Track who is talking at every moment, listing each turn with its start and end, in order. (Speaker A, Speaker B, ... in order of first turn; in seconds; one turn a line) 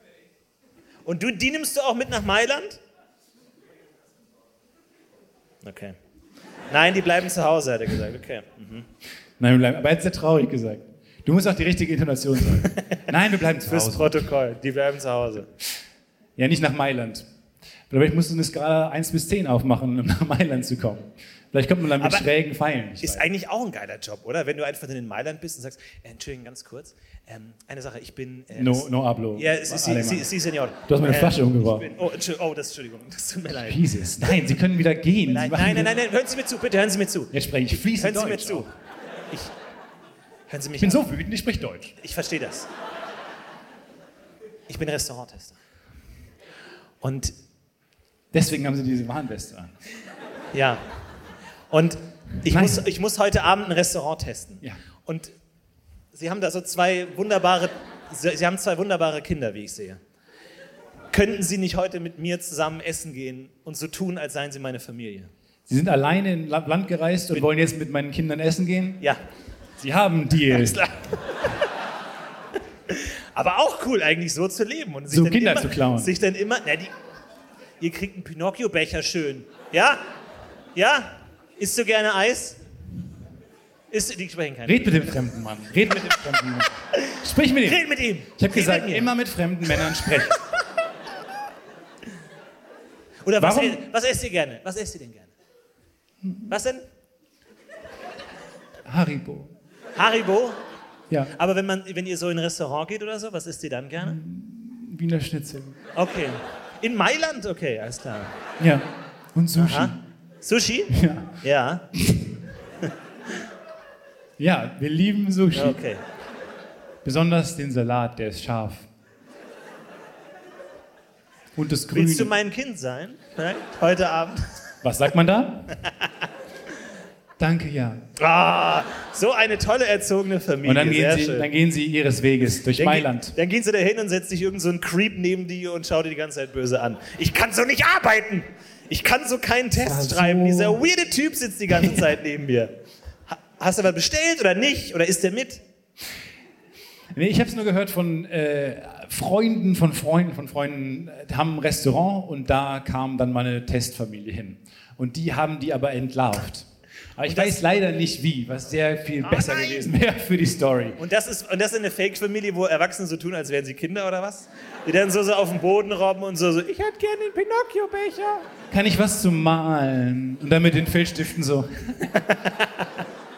Speaker A: 1.1-2.8
Speaker A: 5.6-6.0
Speaker A: 6.7-8.9
Speaker B: 9.4-14.3
Speaker A: 12.7-13.0
Speaker A: 13.6-15.5
Speaker B: 16.4-17.2
Speaker B: 17.9-23.3
Speaker A: 22.0-22.3
Speaker A: 23.0-34.4
Speaker B: 28.5-30.3
Speaker B: 30.8-31.9
Speaker B: 33.5-36.0
Speaker A: 35.2-38.7
Speaker B: 37.3-38.7
Speaker A: 40.5-41.1
Speaker B: 40.8-42.0
Speaker A: 42.0-42.7
Speaker A: 44.7-45.6
Speaker A: 47.0-47.3
Speaker B: 48.3-49.7
Speaker A: 50.5-50.8
Speaker A: 51.7-55.3
Speaker B: 52.5-52.8
Speaker A: 56.1-60.0
Speaker A: 61.1-65.3
Speaker B: 65.7-69.0
Speaker B: 69.8-70.8
Speaker A: 70.5-71.6
Speaker A: 72.9-76.9
Speaker B: 75.1-76.1
Speaker A: 77.8-80.0
Speaker A: 80.7-82.6
Speaker A: 83.9-85.1
Speaker B: 84.6-90.4
Speaker A: 87.0-89.1
Speaker A: 93.2-95.3
Speaker B: 93.4-93.8
Speaker B: 96.2-96.5
Speaker A: 96.5-96.8
Speaker B: 98.9-99.5
Speaker A: 100.0-100.6
Speaker A: 101.3-104.2
Speaker B: 104.0-105.8
Speaker A: 106.0-108.3
Speaker B: 108.6-110.0
Speaker A: 109.6-111.9
Speaker B: 110.9-111.4
Speaker B: 112.0-112.3
Speaker B: 114.4-115.8
Speaker A: 115.5-116.0
Speaker B: 117.0-118.9
Speaker B: 121.5-122.3
Speaker A: 121.9-124.5
Speaker B: 124.8-125.7
Speaker B: 127.4-128.0
Speaker A: 128.2-131.5
Speaker B: 130.6-133.3
Speaker A: 132.7-142.7
Speaker B: 139.8-140.8
Speaker B: 141.7-142.1
Speaker A: 143.3-145.6
Speaker B: 147.1-161.0
Speaker A: 157.2-157.8
Speaker A: 159.2-159.9
Speaker A: 161.0-168.5
Speaker B: 168.7-172.3
Speaker A: 172.3-172.9